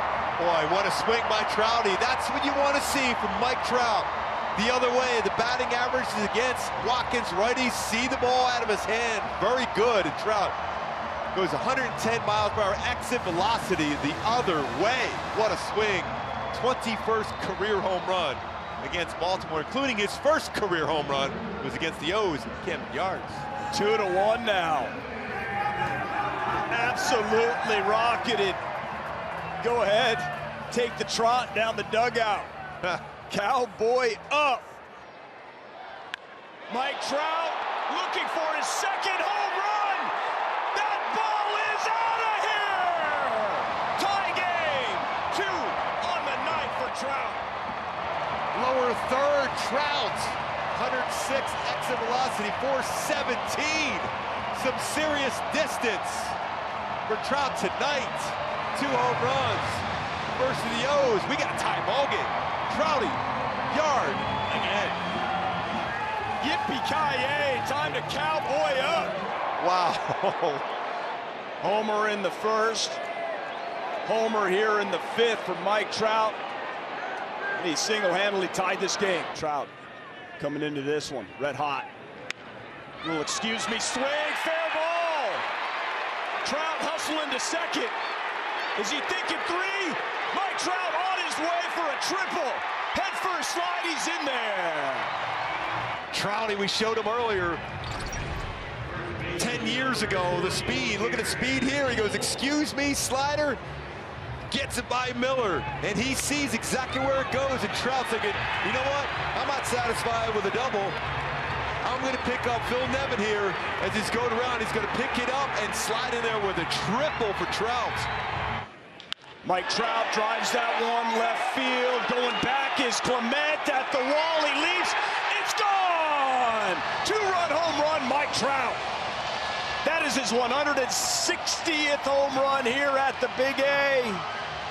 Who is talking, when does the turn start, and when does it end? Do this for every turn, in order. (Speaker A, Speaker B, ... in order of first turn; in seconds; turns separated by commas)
Speaker A: 0.4-10.5, Speaker A: 11.3-23.4, Speaker B: 23.7-25.0, Speaker B: 26.7-28.6, Speaker B: 29.6-32.5, Speaker B: 33.3-34.7, Speaker B: 36.7-40.1, Speaker B: 40.7-47.5, Speaker A: 48.5-56.4, Speaker A: 57.1-65.0, Speaker B: 66.4-69.2, Speaker A: 69.6-70.6, Speaker B: 71.6-73.0, Speaker B: 74.0-76.4, Speaker B: 77.5-79.7, Speaker B: 80.4-81.9, Speaker B: 83.0-85.5, Speaker B: 86.4-88.0, Speaker B: 88.8-95.2, Speaker A: 96.1-97.6, Speaker A: 99.4-103.6, Speaker A: 104.5-111.0, Speaker A: 111.8-118.1, Speaker B: 119.4-128.8, Speaker B: 129.8-134.3